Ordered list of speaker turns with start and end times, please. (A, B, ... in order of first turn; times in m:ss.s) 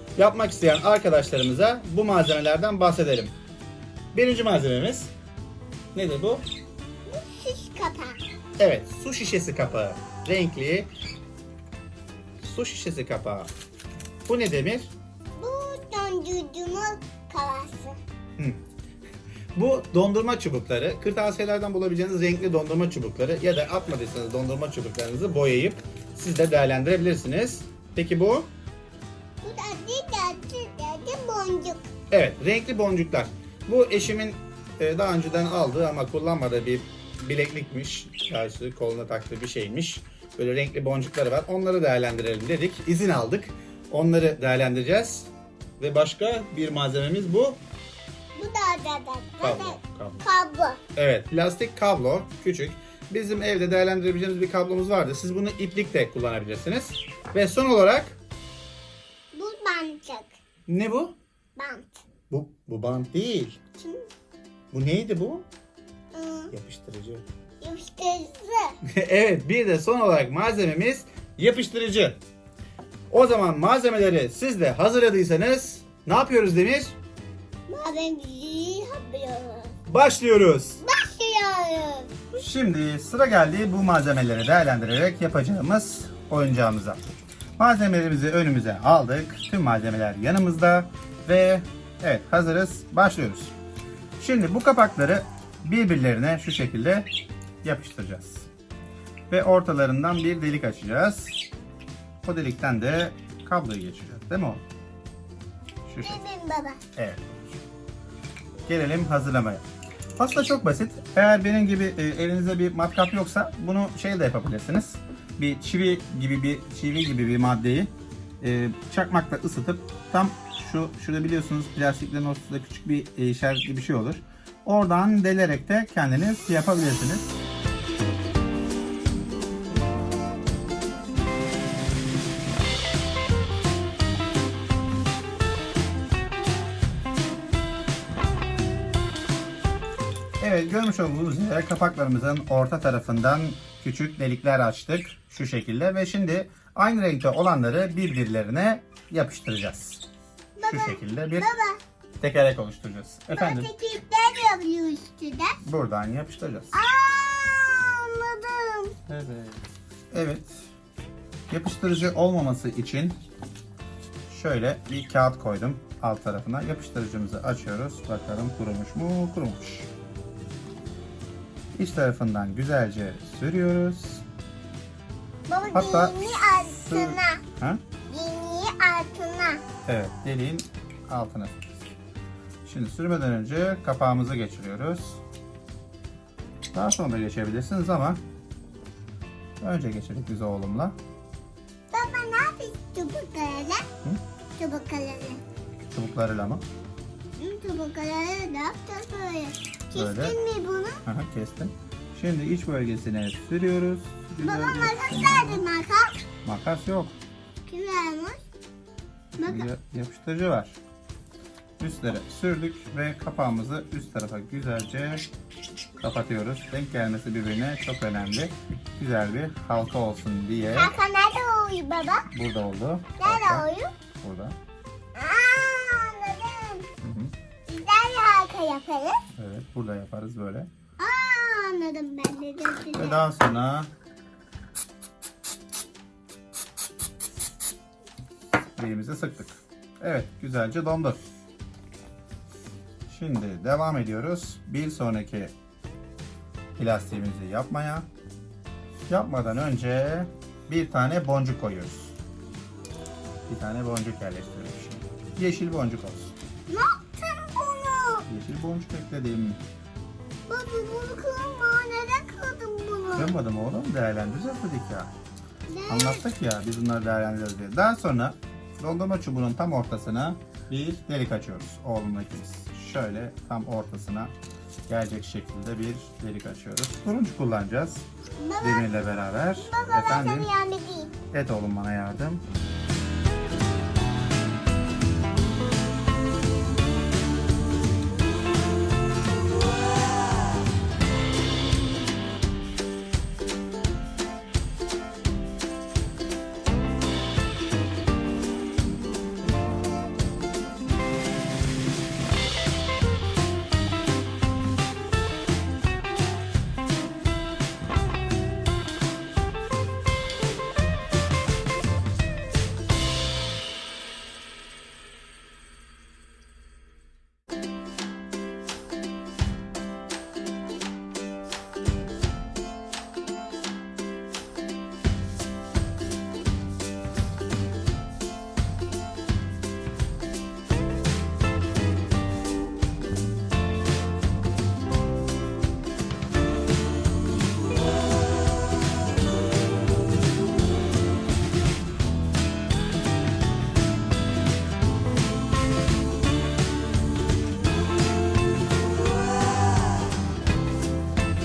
0:00.2-0:03.4 A
0:04.1-0:05.1 A
0:05.9-0:06.5 A
0:07.1-0:08.2 B
0:08.6-0:10.9 A
0:12.4-0:13.5 A
0:14.3-0:14.9 A
0:15.4-0:18.0 B
0:19.5-0:28.5 A
0:29.4-0:31.9 B
0:32.1-0:47.6 A
0:48.4-0:50.8 B
0:49.4-0:50.2 A
0:51.0-0:58.2 A
0:59.3-1:00.3 B
1:00.7-1:01.2 A
1:01.6-1:02.0 B
1:02.3-1:03.6 A
1:03.8-1:04.1 B
1:04.7-1:05.5 A
1:06.1-1:06.5 B
1:06.5-1:07.2 A
1:07.6-1:08.8 B
1:08.8-1:12.2 A
1:13.1-1:17.0 A
1:17.7-1:19.7 B
1:19.9-1:20.8 A
1:20.8-1:22.1 B
1:22.3-1:27.0 A
1:27.6-1:33.6 A
1:34.2-1:37.1 A
1:37.6-1:38.5 A
1:39.3-1:41.4 A
1:42.2-1:44.6 A
1:45.8-1:46.2 A
1:46.0-1:46.8 B
1:47.0-1:47.5 A
1:48.7-1:49.6 A
1:50.2-2:07.4 A
2:20.4-2:30.0 A
2:30.6-2:31.8 B
2:30.7-2:31.5 A
2:32.2-2:33.7 A
2:33.3-2:35.6 B
2:35.6-2:36.7 A
2:36.7-2:39.0 B
2:39.1-2:40.7 A
2:41.5-2:43.2 A
2:44.3-2:49.9 A
2:51.8-2:54.2 A
2:55.5-2:57.4 B
2:55.7-2:56.2 A
2:56.8-2:57.8 A
2:58.1-2:59.6 B
2:59.9-3:01.9 A
3:02.6-3:05.2 A
3:06.7-3:08.2 A
3:09.6-3:11.0 A
3:11.9-3:13.8 B
3:14.6-3:15.4 B
3:15.9-3:16.6 A
3:17.4-3:21.0 B
3:19.9-3:20.4 A
3:21.0-3:25.6 A
3:24.4-3:26.2 B
3:26.4-3:27.2 A
3:27.7-3:28.4 B
3:29.4-3:29.7 B
3:29.4-3:30.8 A
3:31.8-3:35.3 A
3:36.0-3:40.9 A
3:40.8-3:42.3 B
3:42.3-3:43.7 A
3:43.2-3:43.9 B
3:44.2-3:44.6 A
3:45.2-3:46.9 B
3:47.0-3:47.3 A
3:47.7-3:49.2 B
3:49.4-3:50.7 A
3:51.0-3:53.2 B
3:52.9-3:53.9 A
3:58.8-4:01.2 A
4:03.1-4:05.5 A
4:06.8-4:08.1 A
4:09.1-4:12.2 A
4:13.5-4:16.4 A
4:16.7-4:18.3 B
4:18.3-4:19.6 A
4:20.5-4:23.4 B
4:23.2-4:25.1 A
4:25.7-4:26.2 B
4:25.9-4:34.3 A
4:34.9-4:38.1 A
4:38.4-4:38.9 B
4:38.6-4:40.5 A
4:39.6-4:41.2 B
4:41.3-4:42.4 A